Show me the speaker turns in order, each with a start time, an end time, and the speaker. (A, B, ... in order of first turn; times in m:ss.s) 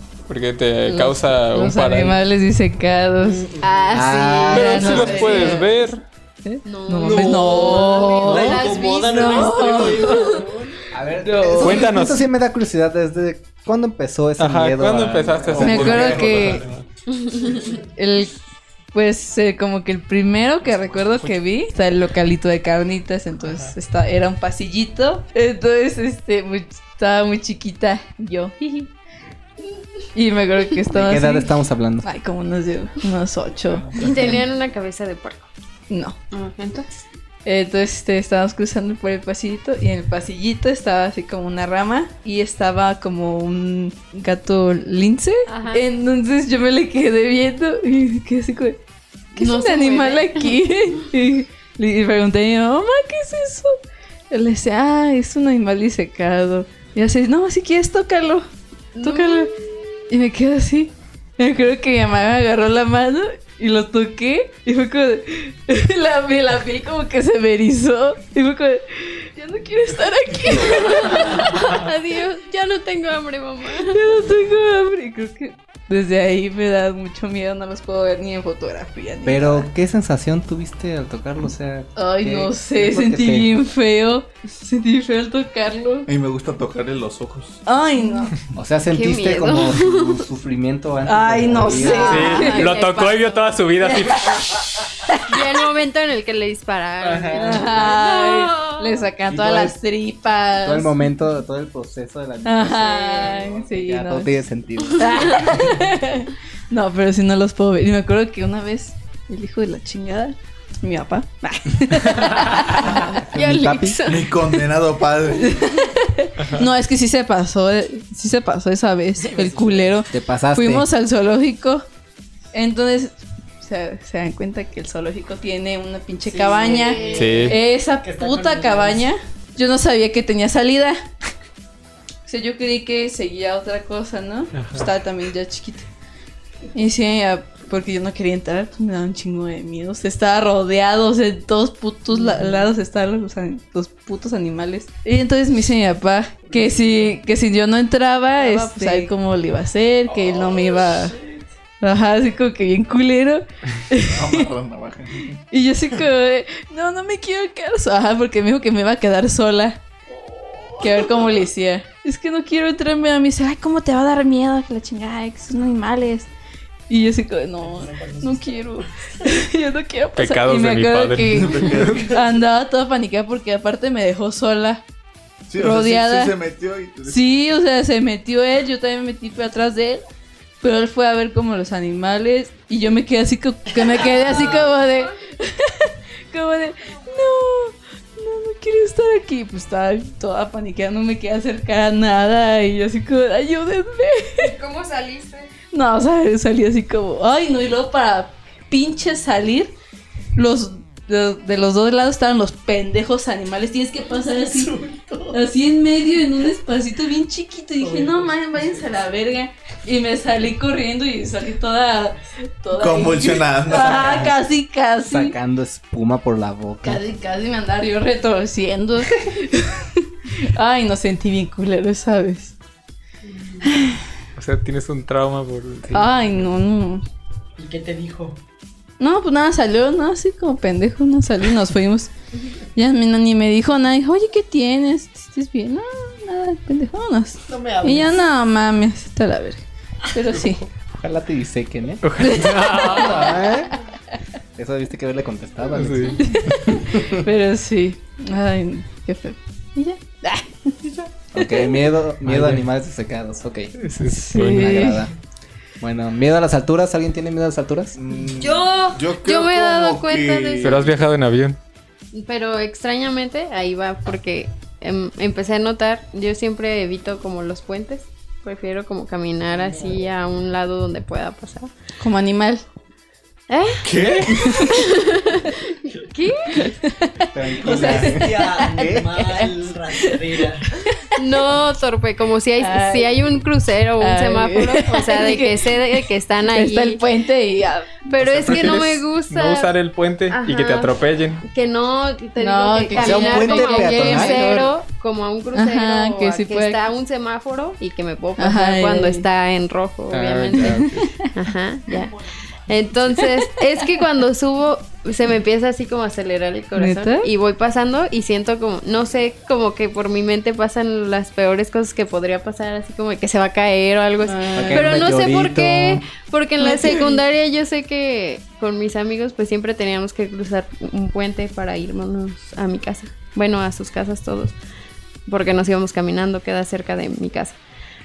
0:00.3-0:02.2 A
0:00.9-0:03.5 B
0:03.2-0:04.0 C
0:03.6-0:05.8 D
0:03.9-0:05.4 E
0:04.5-0:05.9 B
0:04.5-0:06.0 A
0:06.4-0:10.4 B
0:06.6-0:10.1 D
0:07.0-0:10.8 C
0:10.9-0:16.6 E
0:11.2-0:12.0 B
0:11.6-0:12.2 A
0:14.4-0:16.8 A
0:15.5-0:16.6 F
0:15.6-0:16.6 B
0:17.1-0:17.7 D
0:17.8-0:18.3 B
0:18.9-0:28.6 B
0:20.8-0:21.3 A
0:23.5-0:23.7 A
0:28.6-0:28.9 D
0:30.1-0:34.0 B
0:30.9-0:32.0 E
0:33.9-0:35.5 D
0:35.9-0:36.2 B
0:36.3-0:36.9 D
0:37.4-0:48.8 B
0:45.5-0:45.8 D
0:49.3-0:53.8 B
0:49.4-0:50.6 D
0:54.3-0:58.4 B
0:58.9-0:59.5 D
0:59.0-1:11.5 B
1:10.5-1:14.0 D
1:13.8-1:19.7 B
1:19.2-1:23.5 E
1:22.0-1:26.1 B
1:26.1-1:27.6 F
1:27.6-1:28.3 B
1:28.5-1:32.4 E
1:28.9-1:30.2 D
1:31.0-1:32.8 B
1:31.5-1:34.0 D
1:32.1-1:34.8 A
1:33.8-1:35.4 B
1:35.2-1:39.1 D
1:37.0-1:37.6 A
1:37.4-1:41.1 B
1:39.3-1:39.8 E
1:40.6-1:45.6 E
1:42.4-1:44.3 B
1:43.1-1:43.4 D
1:45.0-1:53.1 B
1:52.5-1:54.3 D
1:53.2-1:54.0 E
1:54.0-1:55.6 F
1:55.4-2:01.8 B
1:56.4-1:56.6 A
1:59.2-2:00.0 C
2:00.1-2:00.9 E
2:02.5-2:11.0 B
2:06.2-2:09.1 C
2:06.6-2:07.5 D
2:07.1-2:07.6 A
2:12.2-2:15.9 B
2:14.5-2:14.9 A
2:16.7-2:31.2 B
2:22.2-2:22.5 C
2:26.5-2:27.1 C
2:28.4-2:29.1 C
2:30.1-2:31.4 C
2:31.8-2:34.5 B
2:34.0-2:35.4 F
2:35.5-2:39.8 B
2:40.1-2:41.3 C
2:40.8-2:46.3 B
2:46.9-2:54.8 B
2:47.6-2:48.8 C
2:50.2-2:52.0 A
2:51.3-2:52.2 F
2:55.5-2:57.2 F
2:55.6-2:56.3 B
2:57.1-3:00.0 B
3:00.6-3:14.5 B
3:03.8-3:04.6 C
3:14.4-3:15.5 D
3:15.7-3:19.7 B
3:20.4-3:24.7 B
3:24.4-3:25.4 C
3:25.3-3:35.3 B
3:27.8-3:28.3 C
3:32.7-3:34.4 F
3:35.0-3:37.0 E
3:36.8-3:42.5 B
3:43.6-3:44.0 B
3:44.4-3:46.1 A
3:45.9-3:47.0 B
3:47.6-3:48.4 C
3:49.0-3:52.1 B
3:52.7-4:00.6 B
3:57.5-3:58.2 C
4:01.0-4:03.7 E
4:02.0-4:03.5 A
4:02.2-4:03.3 B
4:04.6-4:07.2 E
4:05.8-4:06.2 A
4:06.2-4:11.5 B
4:11.3-4:13.7 E
4:12.2-4:12.6 A
4:13.8-4:14.7 A
4:14.1-4:15.0 B
4:14.3-4:15.1 E
4:15.8-4:18.0 E
4:17.9-4:20.9 F
4:18.5-4:20.8 D
4:20.6-4:21.6 A
4:22.1-4:31.7 D
4:29.5-4:30.1 C
4:32.0-4:32.6 B
4:33.5-4:36.7 D
4:33.8-4:34.6 F
4:36.5-4:41.1 B
4:37.3-4:39.2 E
4:37.6-4:40.7 C
4:41.2-4:47.0 D
4:42.6-4:43.2 B
4:44.0-4:47.9 B
4:48.1-4:49.7 D
4:48.2-4:51.4 A
4:50.3-4:50.9 D
4:51.4-5:00.8 D
4:52.4-4:54.7 B
4:53.0-4:54.5 E
4:55.5-4:56.8 B
4:58.4-4:59.2 B
5:00.1-5:01.1 E
5:00.6-5:01.3 B
5:01.3-5:02.1 D
5:02.7-5:24.6 D
5:03.2-5:03.5 B
5:06.8-5:07.3 B
5:14.2-5:15.0 B
5:14.5-5:16.1 E
5:16.6-5:17.2 B
5:25.3-5:27.6 D